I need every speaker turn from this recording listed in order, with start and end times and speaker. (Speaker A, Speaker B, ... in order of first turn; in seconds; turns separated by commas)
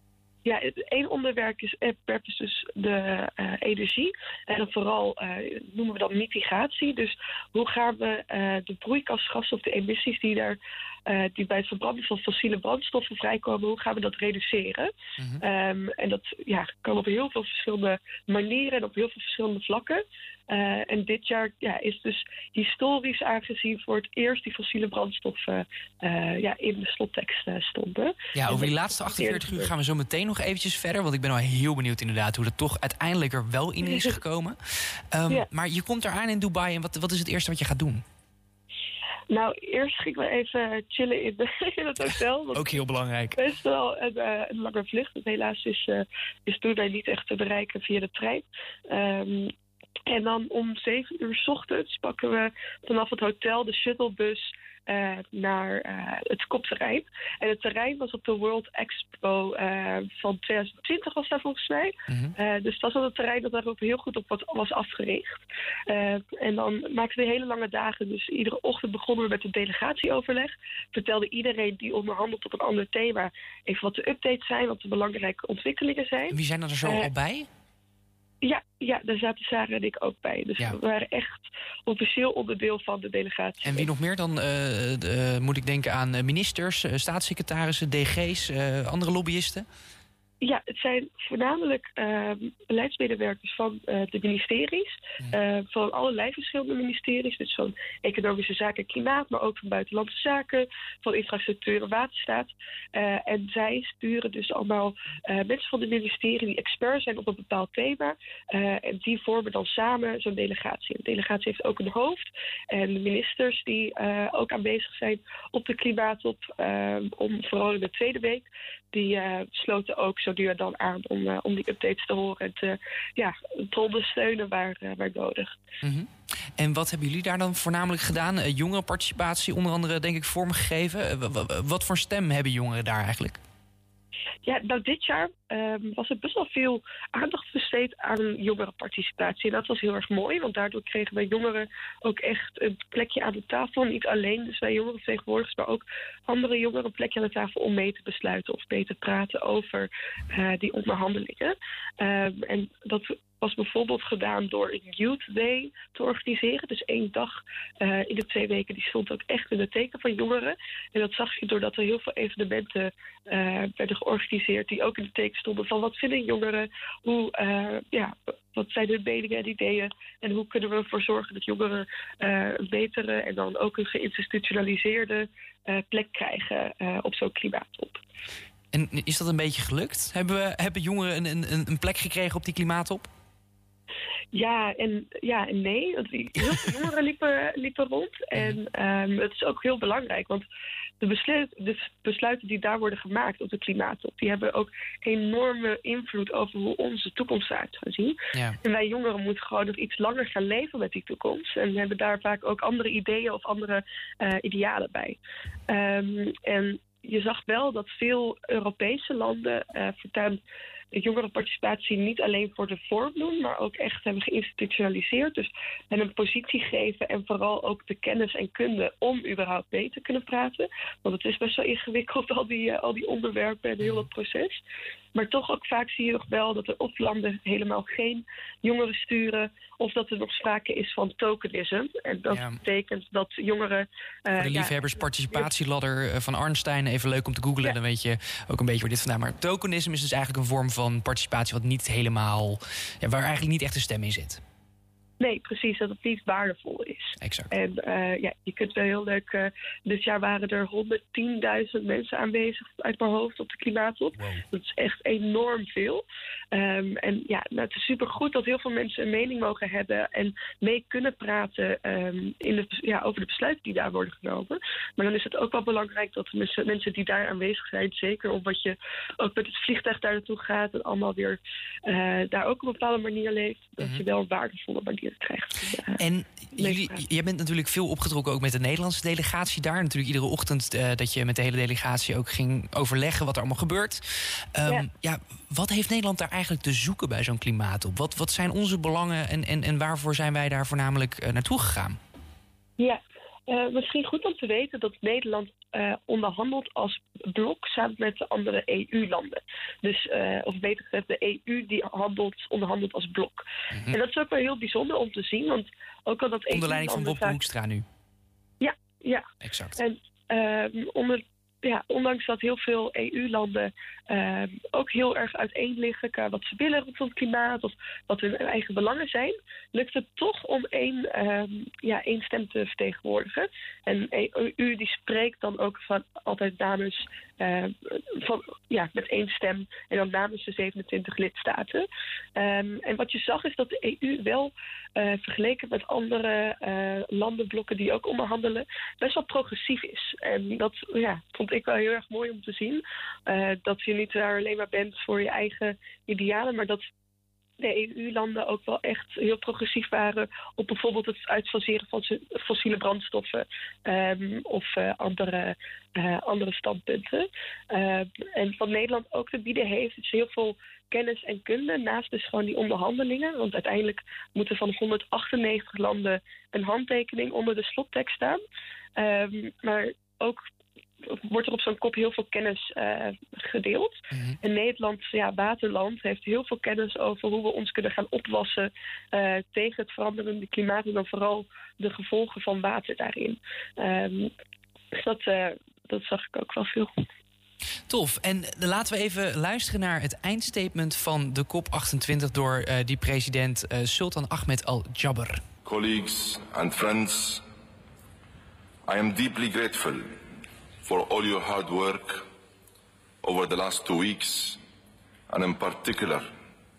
Speaker A: 0.5-29.7, Speaker B: 28.4-38.0, Speaker A: 33.9-34.1, Speaker A: 39.3-42.8, Speaker B: 42.5-43.4, Speaker A: 43.4-49.5, Speaker A: 50.1-77.1, Speaker B: 62.1-62.3, Speaker B: 76.3-77.5, Speaker A: 78.4-83.9, Speaker B: 83.6-89.7, Speaker A: 90.4-125.5, Speaker B: 125.8-133.4, Speaker A: 134.4-178.0, Speaker B: 178.7-183.1, Speaker A: 184.3-190.5, Speaker A: 191.0-205.2, Speaker B: 198.3-198.6, Speaker A: 205.7-210.4, Speaker A: 210.9-224.6, Speaker B: 223.8-224.1, Speaker A: 225.2-235.5, Speaker B: 232.3-232.6, Speaker B: 234.3-244.4, Speaker A: 245.2-276.0, Speaker B: 247.2-247.5, Speaker B: 276.0-292.0, Speaker A: 276.6-277.1, Speaker A: 292.8-307.4, Speaker B: 306.5-307.9, Speaker A: 308.6-346.9, Speaker B: 309.4-309.8, Speaker A: 347.6-368.4, Speaker A: 369.0-370.4, Speaker A: 371.0-384.3, Speaker B: 374.1-374.4, Speaker A: 384.9-386.9, Speaker B: 387.9-395.4, Speaker C: 395.7-397.4, Speaker C: 398.9-400.0, Speaker C: 400.9-402.2, Speaker C: 403.3-404.6, Speaker C: 405.3-406.3